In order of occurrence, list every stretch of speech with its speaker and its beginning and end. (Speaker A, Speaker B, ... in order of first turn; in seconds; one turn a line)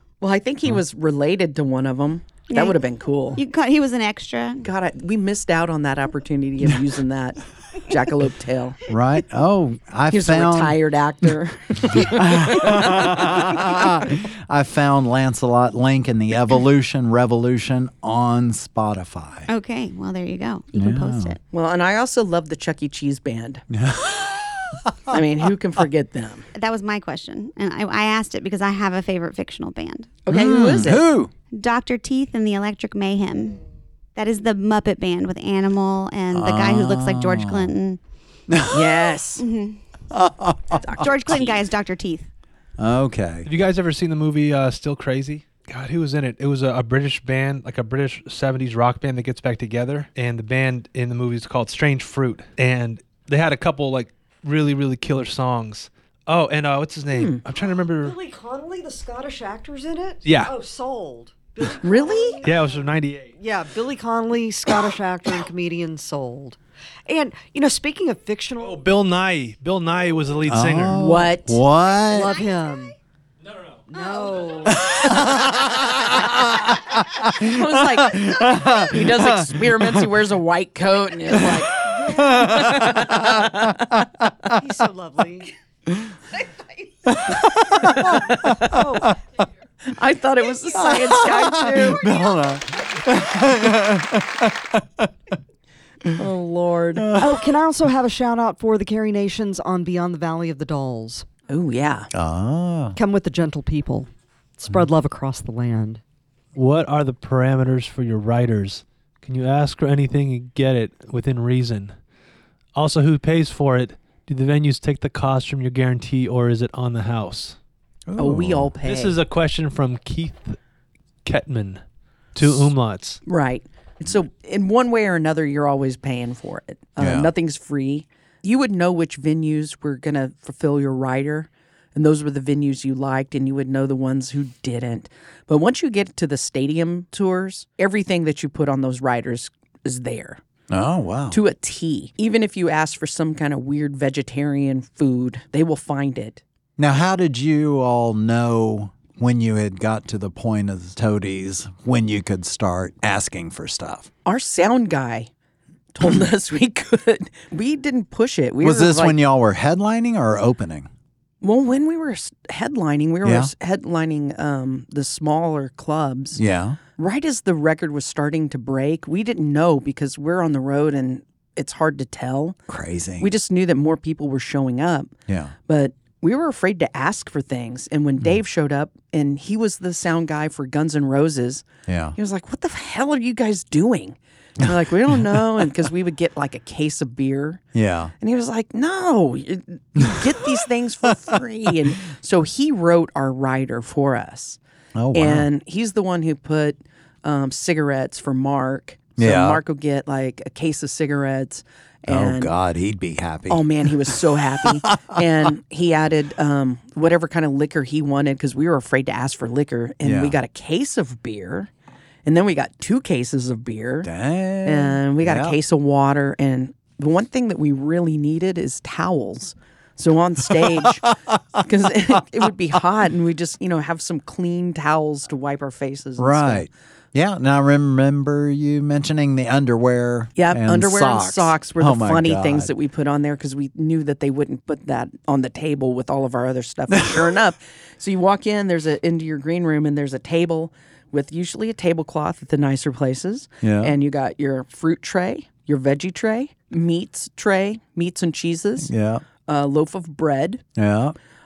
Speaker A: 0.2-3.4
Speaker B: 2.5-2.8
Speaker B: 3.4-4.7
Speaker A: 4.6-8.8
Speaker C: 8.9-10.8
Speaker A: 10.1-12.9
Speaker C: 12.0-19.5
Speaker B: 19.5-21.4
Speaker C: 20.8-21.4
Speaker A: 21.5-23.6
Speaker C: 23.7-25.2
Speaker A: 25.1-26.4
Speaker B: 26.5-30.2
Speaker A: 30.3-31.0
Speaker C: 30.3-31.3
Speaker B: 31.5-33.6
Speaker B: 34.2-38.0
Speaker C: 36.3-37.7
Speaker C: 38.5-38.9
Speaker A: 38.7-39.4
Speaker B: 39.4-39.8
Speaker C: 40.1-40.9
Speaker A: 40.8-41.6
Speaker B: 41.0-42.3
Speaker C: 42.8-43.5
Speaker D: 43.5-58.1
Speaker A: 57.1-57.4
Speaker E: 57.9-62.7
Speaker D: 60.2-60.5
Speaker A: 61.8-62.4
Speaker D: 62.4-63.3
Speaker E: 63.4-68.9
Speaker D: 68.6-71.0
Speaker C: 70.5-72.4
Speaker A: 70.9-71.6
Speaker B: 72.1-72.8
Speaker E: 72.1-73.0
Speaker E: 73.9-75.0
Speaker C: 74.7-80.0
Speaker A: 77.3-83.9
Speaker C: 81.3-84.5
Speaker E: 84.5-85.5
Speaker C: 85.9-86.2
Speaker C: 87.1-89.1
Speaker E: 88.4-89.1
Speaker A: 89.9-92.0
Speaker C: 90.8-95.1
Speaker A: 96.2-97.0
Speaker C: 97.0-97.5
Speaker E: 97.2-101.3
Speaker A: 101.5-102.1
Speaker C: 102.1-103.0
Speaker E: 103.0-106.0
Speaker D: 106.5-112.0
Speaker D: 112.7-117.6
Speaker C: 118.1-118.7
Speaker A: 118.2-119.2
Speaker D: 118.8-120.6
Speaker D: 121.2-121.8
Speaker D: 122.3-123.2
Speaker A: 123.2-140.4
Speaker C: 127.0-127.3
Speaker C: 140.7-141.4
Speaker A: 141.3-146.4
Speaker C: 146.8-154.1
Speaker A: 154.2-155.3
Speaker A: 155.9-159.2
Speaker C: 158.6-160.9
Speaker A: 161.4-166.4
Speaker C: 163.2-163.5
Speaker C: 166.4-166.8
Speaker A: 167.0-172.6
Speaker C: 172.7-173.3
Speaker A: 173.2-175.1
Speaker C: 175.3-175.5
Speaker A: 175.7-187.6
Speaker C: 181.9-182.2
Speaker C: 187.8-188.1
Speaker A: 188.2-194.6
Speaker C: 195.0-195.5
Speaker A: 195.1-202.5
Speaker C: 199.2-199.6
Speaker C: 202.1-204.2
Speaker A: 203.5-211.7
Speaker C: 204.8-205.2
Speaker C: 210.0-210.4
Speaker A: 212.2-214.1
Speaker C: 214.0-215.6
Speaker A: 214.6-226.7
Speaker C: 220.8-221.1
Speaker C: 226.2-232.7
Speaker A: 230.4-248.9
Speaker C: 243.6-244.0
Speaker C: 248.8-249.2
Speaker A: 249.5-250.6
Speaker C: 250.8-251.2